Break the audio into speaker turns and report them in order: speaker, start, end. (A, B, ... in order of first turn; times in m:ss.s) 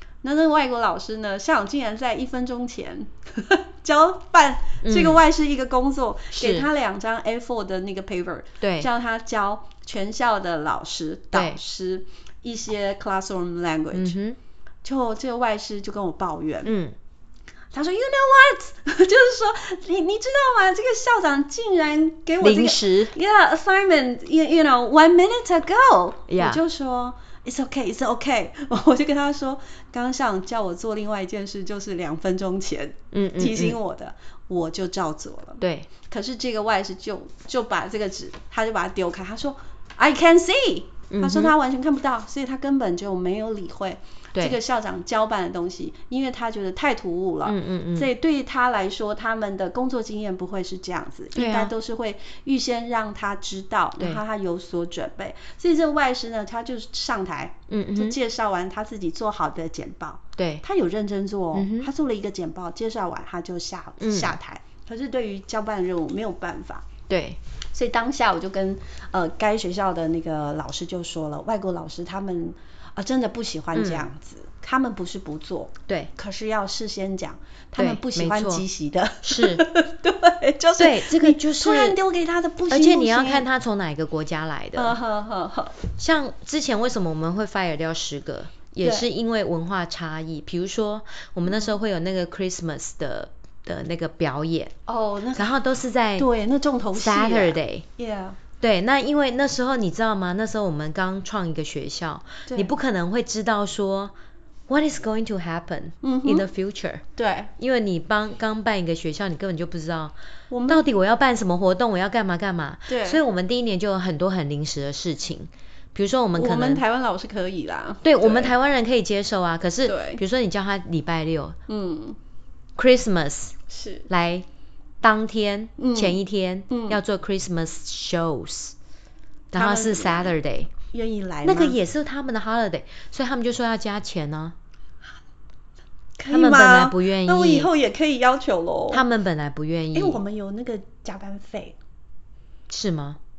0:00.2-0:14.2 A
0:04.8-0:05.2 B
0:06.3-0:06.7 B
0:08.6-0:08.9 B
0:11.3-0:11.6 B
0:13.9-0:14.4 B
0:14.8-0:16.7 A
0:16.6-0:17.0 B
0:17.7-1:06.9 A
0:22.4-0:23.1 B
0:26.3-0:26.6 B
0:33.1-0:33.8 B
0:35.6-0:35.9 B
0:41.1-0:41.5 B
0:47.4-0:48.1 B
0:51.3-0:51.7 B
0:57.7-0:58.2 B
1:00.4-1:00.6 B
1:01.5-1:01.9 B
1:04.0-1:04.4 B
1:07.1-1:07.4 B
1:07.7-1:23.4 A
1:13.7-1:14.1 B
1:17.8-1:18.6 B
1:19.2-1:19.6 B
1:20.8-1:22.0 B
1:22.7-1:25.0 B
1:24.7-1:25.8 A
1:26.0-1:34.7 B
1:28.8-1:29.1 A
1:34.9-1:35.6 A
1:35.4-1:36.3 B
1:36.2-1:38.4 A
1:36.9-1:37.8 B
1:38.6-1:44.1 B
1:42.5-1:42.7 A
1:44.7-1:47.0 B
1:46.0-1:46.5 A
1:47.2-1:47.5 A
1:47.6-1:50.1 B
1:50.5-1:50.8 A
1:50.7-1:56.8 B
1:52.9-1:53.2 A
1:56.4-1:58.5 A
1:58.0-2:01.6 B
1:59.8-2:00.2 A
2:01.7-2:02.2 A
2:02.8-2:03.6 B
2:03.7-2:04.1 A
2:04.1-2:04.4 B
2:05.0-2:08.7 B
2:05.8-2:07.0 A
2:09.5-2:10.7 B
2:09.5-2:10.3 A
2:10.9-2:11.8 A
2:11.4-2:14.5 B
2:16.2-2:19.0 A
2:16.3-2:17.7 B
2:18.9-2:20.2 B
2:19.9-2:21.8 A
2:22.7-2:23.2 B